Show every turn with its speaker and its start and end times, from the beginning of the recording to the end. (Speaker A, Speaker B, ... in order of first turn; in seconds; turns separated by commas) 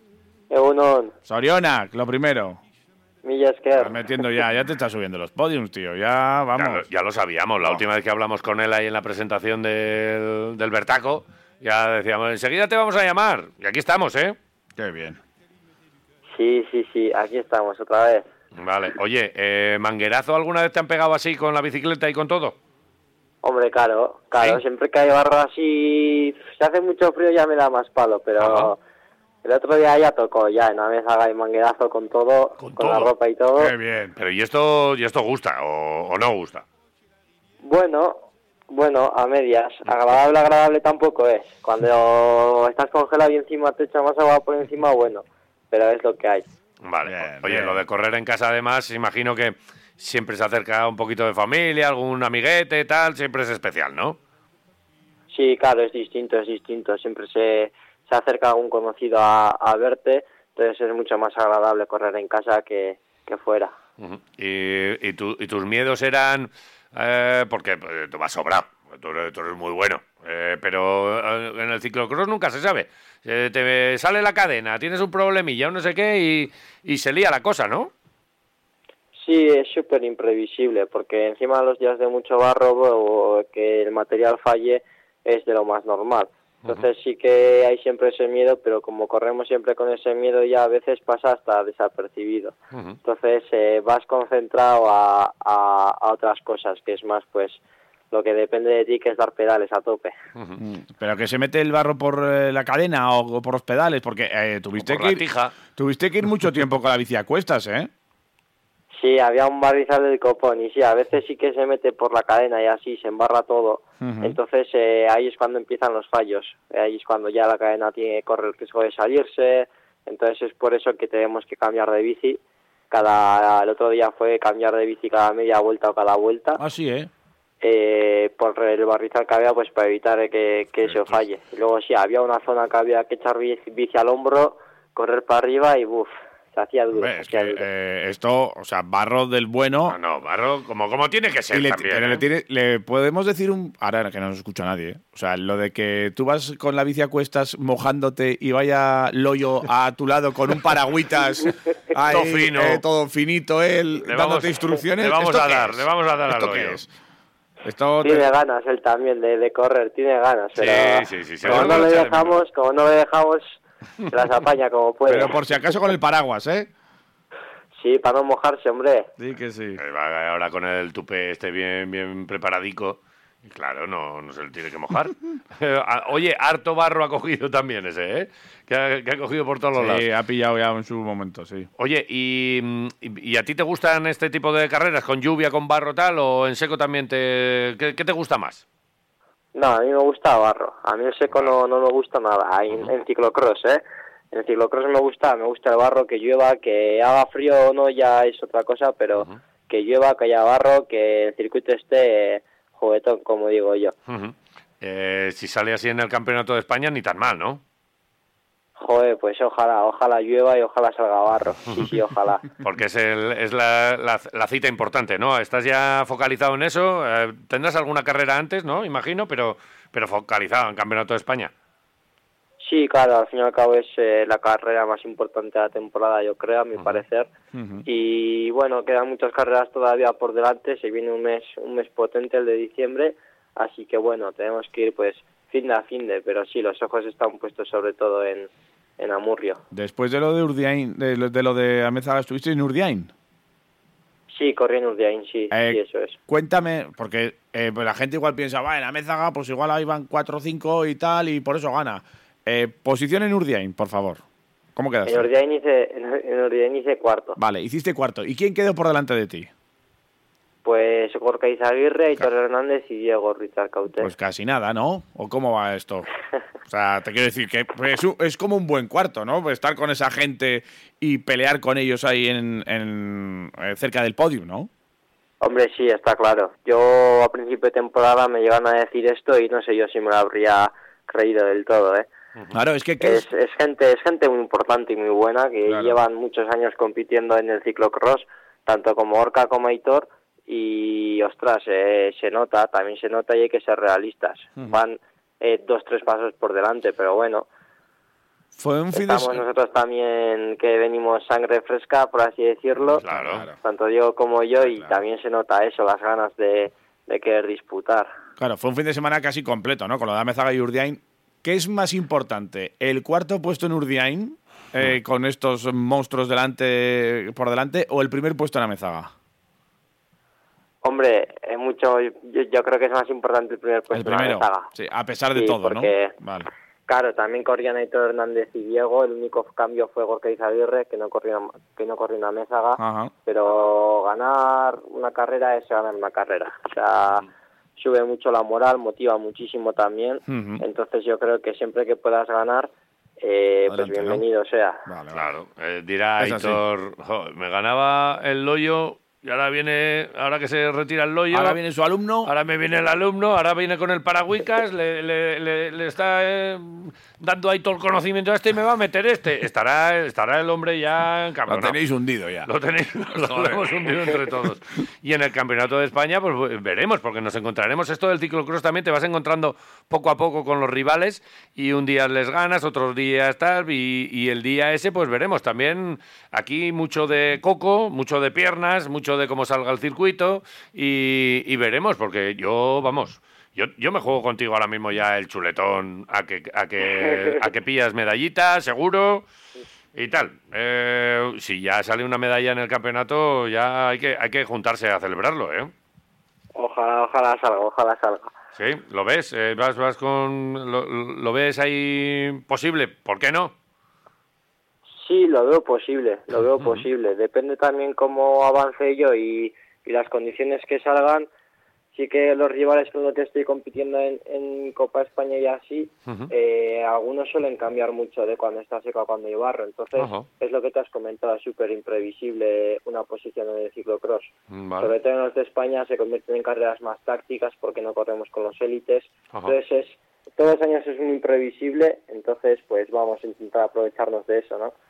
Speaker A: 0.5-1.1, Speaker B: 1.3-2.6, Speaker A: 3.2-4.3, Speaker B: 3.8-6.8, Speaker C: 6.5-14.3, Speaker B: 14.8-15.2, Speaker A: 16.3-18.2, Speaker C: 18.6-22.6, Speaker A: 23.4-28.8, Speaker C: 28.4-28.7, Speaker A: 29.4-33.7, Speaker C: 32.6-33.1, Speaker B: 33.6-34.1, Speaker C: 34.1-36.6, Speaker A: 37.6-46.5, Speaker C: 46.8-54.2, Speaker B: 47.0-47.8, Speaker A: 55.3-63.7, Speaker C: 64.0-77.9, Speaker A: 79.2-97.6, Speaker C: 92.7-93.0, Speaker A: 98.1-100.1, Speaker C: 100.3-100.6, Speaker B: 100.6-107.9, Speaker C: 104.8-105.5, Speaker A: 108.9-122.4, Speaker B: 114.0-114.4, Speaker A: 122.9-126.6, Speaker B: 126.6-127.1, Speaker A: 127.6-137.6, Speaker B: 136.9-140.0, Speaker C: 139.9-142.2, Speaker B: 141.5-156.9, Speaker C: 152.1-152.8, Speaker C: 154.0-156.8, Speaker B: 157.6-158.3, Speaker A: 158.0-165.3, Speaker C: 160.6-162.3, Speaker B: 161.4-161.8, Speaker B: 165.1-166.7, Speaker A: 167.8-169.1, Speaker B: 169.2-169.8, Speaker C: 169.8-180.1, Speaker B: 179.8-181.7, Speaker C: 181.8-188.6, Speaker A: 189.5-203.9, Speaker C: 204.1-207.6, Speaker A: 208.8-212.4, Speaker C: 212.6-221.5, Speaker A: 222.6-227.3, Speaker B: 227.5-227.8, Speaker A: 227.8-239.6, Speaker B: 239.7-243.1, Speaker A: 244.3-246.2, Speaker B: 245.5-254.2, Speaker B: 254.8-255.3, Speaker A: 255.1-257.4, Speaker B: 257.4-259.5, Speaker A: 260.6-264.1, Speaker B: 264.0-266.1, Speaker B: 266.7-274.7, Speaker A: 275.4-282.1, Speaker B: 282.5-283.2, Speaker A: 283.0-297.5, Speaker B: 285.7-286.0, Speaker B: 298.5-299.4, Speaker A: 298.9-303.0, Speaker B: 302.9-303.6, Speaker C: 303.0-303.5, Speaker A: 303.6-308.1, Speaker B: 304.6-304.9, Speaker B: 308.4-319.1, Speaker A: 320.8-324.7, Speaker B: 323.9-326.5, Speaker A: 325.3-326.1, Speaker A: 326.9-344.8, Speaker B: 332.8-333.1, Speaker B: 340.3-340.6, Speaker B: 343.7-344.2, Speaker B: 344.9-345.2, Speaker C: 345.1-351.6, Speaker B: 346.2-346.6, Speaker B: 351.3-352.3, Speaker C: 352.2-361.8, Speaker B: 361.5-362.5, Speaker C: 362.4-389.2, Speaker B: 363.1-364.5, Speaker C: 389.9-395.7, Speaker A: 396.5-398.3, Speaker C: 398.6-403.5, Speaker A: 405.0-411.3, Speaker A: 411.9-434.7, Speaker C: 419.9-420.3, Speaker C: 424.5-424.9